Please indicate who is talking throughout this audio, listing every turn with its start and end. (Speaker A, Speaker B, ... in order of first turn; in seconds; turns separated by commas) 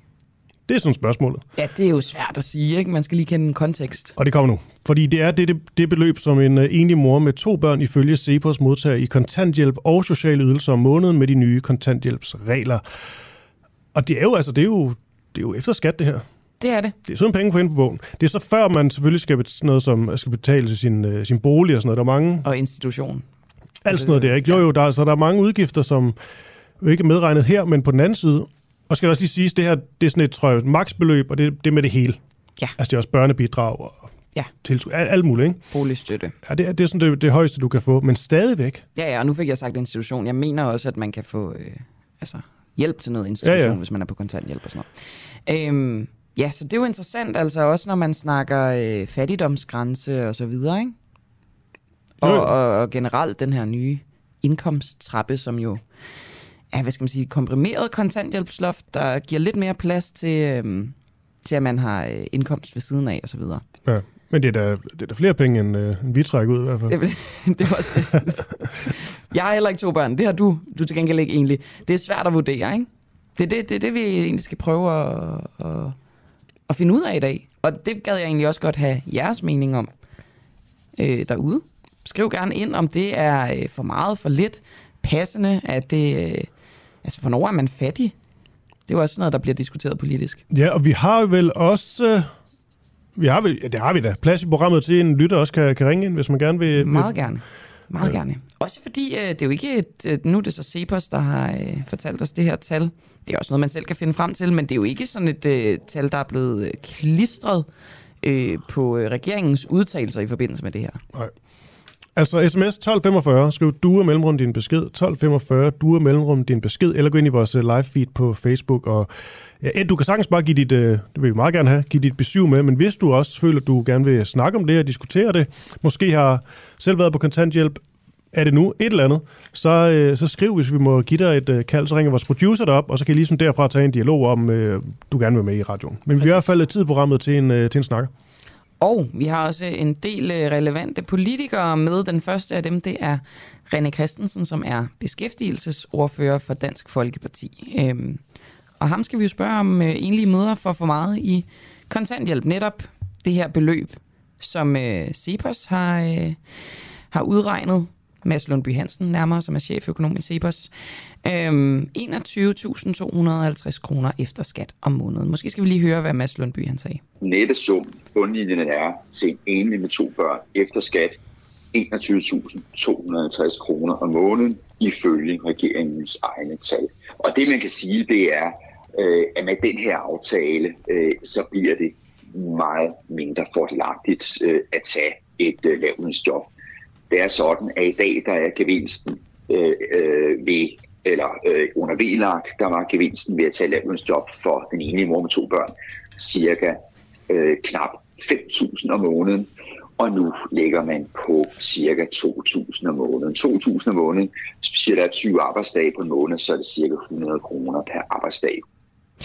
Speaker A: 0.7-1.4, Speaker B: 1.6-4.1, Speaker A: 4.2-12.8, Speaker A: 13.9-16.2, Speaker B: 16.6-17.0, Speaker A: 17.1-22.5, Speaker B: 22.4-23.2, Speaker A: 23.9-26.2, Speaker B: 23.9-24.6, Speaker A: 26.8-32.2, Speaker A: 32.8-34.1, Speaker A: 34.6-35.6, Speaker B: 35.7-36.4, Speaker A: 36.5-38.9, Speaker B: 39.0-44.9, Speaker A: 43.4-43.8, Speaker B: 45.5-51.0, Speaker B: 52.2-55.8, Speaker A: 52.2-52.5, Speaker B: 56.7-63.6, Speaker A: 63.9-66.9, Speaker B: 66.9-76.0, Speaker B: 76.7-79.9, Speaker B: 81.0-86.5, Speaker B: 87.0-88.1, Speaker B: 88.9-90.4, Speaker A: 90.5-92.3, Speaker A: 93.2-97.3, Speaker B: 96.7-107.7, Speaker B: 108.2-111.0, Speaker A: 112.2-119.1, Speaker A: 119.6-127.8, Speaker A: 128.3-138.1, Speaker B: 136.2-136.4, Speaker B: 138.8-148.2, Speaker B: 148.8-156.4, Speaker B: 157.1-160.7, Speaker B: 161.2-167.0, Speaker C: 167.2-171.2, Speaker C: 171.7-186.5, Speaker C: 187.1-208.6